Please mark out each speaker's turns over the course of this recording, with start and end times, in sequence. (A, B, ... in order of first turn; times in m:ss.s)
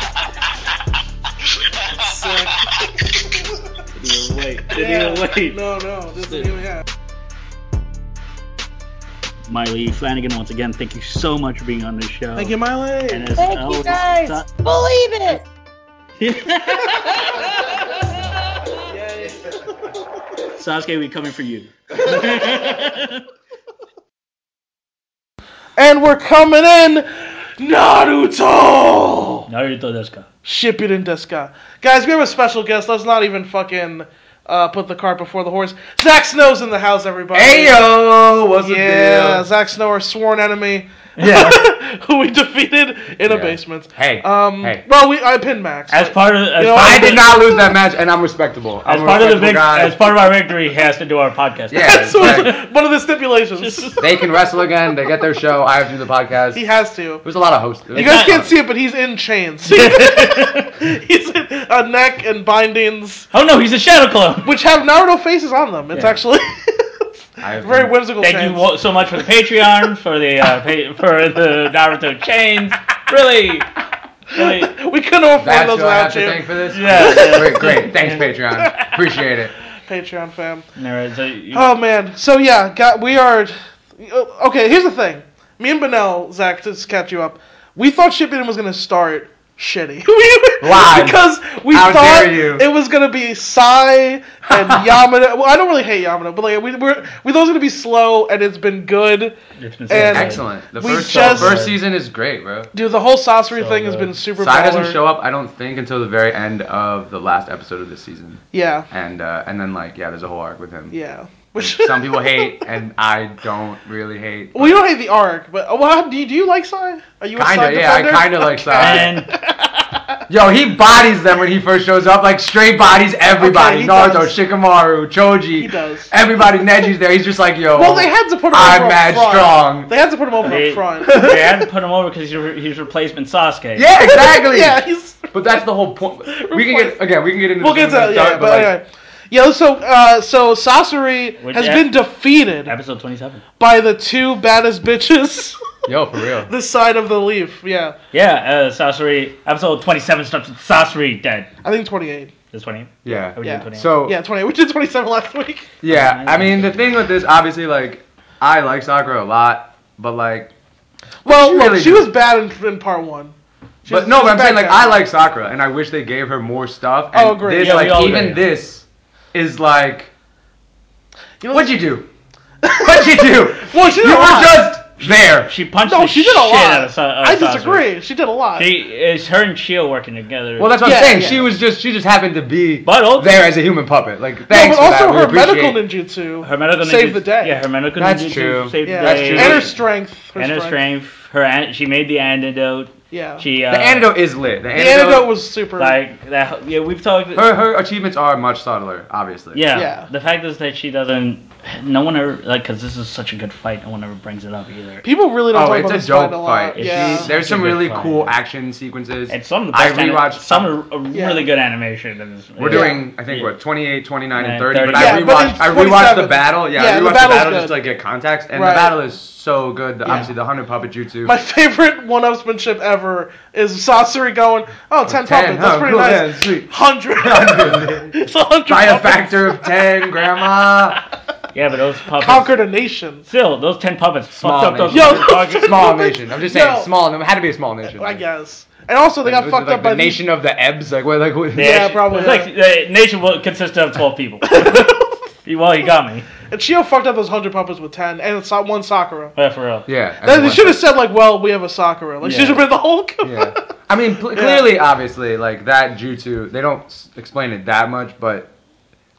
0:01.9-0:03.6 A
0:03.9-0:05.6 B
0:04.7-0:06.8 A
0:09.5-0:12.5 B
0:12.4-0:13.4 A
0:13.1-0:14.5 B
0:13.4-0:15.4 C
0:16.2-0:17.5 B
0:18.9-0:20.0 A
0:20.5-0:23.2 B
0:25.8-0:29.5 A
0:29.5-0:30.3 B
0:30.4-0:37.9 A
0:37.3-0:39.4 D
0:38.6-0:47.4 A
0:41.2-0:41.6 B
0:43.2-0:44.8 D
0:45.9-0:47.4 B
0:46.8-0:50.0 D
0:48.8-0:52.6 B
0:51.7-0:52.5 D
0:51.8-0:54.0 A
0:53.6-0:54.0 B
0:54.0-0:56.6 D
0:56.5-0:57.2 A
0:57.2-0:58.5 D
0:57.9-1:03.3 A
0:57.9-0:58.4 B
0:59.7-1:00.7 B
1:03.3-1:04.5 B
1:04.4-1:07.1 A
1:07.4-1:07.9 D
1:07.6-1:08.6 A
1:08.2-1:13.7 B
1:14.3-1:14.7 B
1:14.3-1:17.9 A
1:15.4-1:19.5 D
1:16.7-1:18.2 B
1:18.6-1:19.0 A
1:19.8-1:20.6 A
1:20.8-1:21.7 B
1:21.5-1:39.4 A
1:30.6-1:32.7 D
1:34.5-1:34.9 D
1:39.6-1:41.8 B
1:39.9-1:41.6 A
1:40.0-1:42.7 D
1:42.7-1:45.0 A
1:43.5-1:44.2 B
1:44.4-1:50.9 D
1:48.5-1:48.9 A
1:50.9-1:52.6 A
1:51.6-1:54.8 D
1:54.5-2:00.2 A
1:57.4-1:59.2 D
1:58.8-1:59.3 B
2:00.3-2:09.9 D
2:03.3-2:04.3 A
2:05.6-2:06.1 A
2:07.7-2:11.4 A
2:10.4-2:13.9 B
2:11.0-2:11.6 D
2:13.8-2:14.8 D
2:14.0-2:15.3 A
2:15.3-2:18.7 D
2:16.3-2:17.0 A
2:17.6-2:22.7 A
2:21.4-2:21.9 B
2:22.7-2:23.4 B
2:23.6-2:25.6 A
2:25.8-2:26.5 D
2:26.5-2:28.0 A
2:28.1-2:31.5 B
2:31.6-2:32.3 A
2:32.5-2:33.9 B
2:33.0-2:34.2 D
2:33.4-2:35.7 A
2:35.8-2:40.5 D
2:35.8-2:36.8 B
2:41.2-2:42.1 D
2:41.2-2:45.0 A
2:43.9-2:50.1 D
2:47.1-2:48.0 A
2:47.6-2:48.4 B
2:51.4-2:51.8 A
2:51.5-2:52.1 D
2:52.6-2:54.6 A
2:52.8-2:55.5 D
2:55.0-2:57.9 B
2:55.8-2:58.7 A
2:58.6-3:00.8 B
3:00.6-3:05.8 D
3:00.8-3:01.5 A
3:02.8-3:03.5 B
3:04.5-3:07.6 A
3:06.4-3:09.7 B
3:08.0-3:09.7 D
3:08.8-3:10.8 A
3:10.4-3:14.1 B
3:13.1-3:13.4 A
3:13.7-3:15.3 D
3:14.7-3:16.0 A
3:15.8-3:17.5 B
3:17.3-3:19.7 D
3:19.5-3:25.0 B
3:19.7-3:20.1 A
3:25.0-3:27.3 A
3:25.5-3:30.7 D
3:26.8-3:28.3 B
3:29.3-3:33.5 B
3:31.1-3:31.5 A
3:32.6-3:41.4 D
3:32.7-3:33.0 A
3:34.3-3:35.3 B
3:34.9-3:37.8 A
3:38.5-3:39.0 A
3:40.0-3:40.3 A
3:41.2-3:49.7 A
3:45.0-3:48.1 D
3:48.7-3:51.0 D
3:51.5-3:52.5 B
3:52.2-3:53.2 A
3:53.3-3:55.9 B
3:54.3-3:58.2 D
3:54.9-3:56.9 A
3:57.9-4:00.2 A
3:59.2-4:02.0 D
4:01.5-4:06.3 B
4:01.6-4:02.5 A
4:04.5-4:05.1 A
4:06.5-4:09.3 A
4:09.4-4:09.9 B
4:09.9-4:10.8 D
4:10.2-4:13.6 A
4:12.2-4:12.6 B
4:13.2-4:18.5 D
4:14.3-4:14.6 A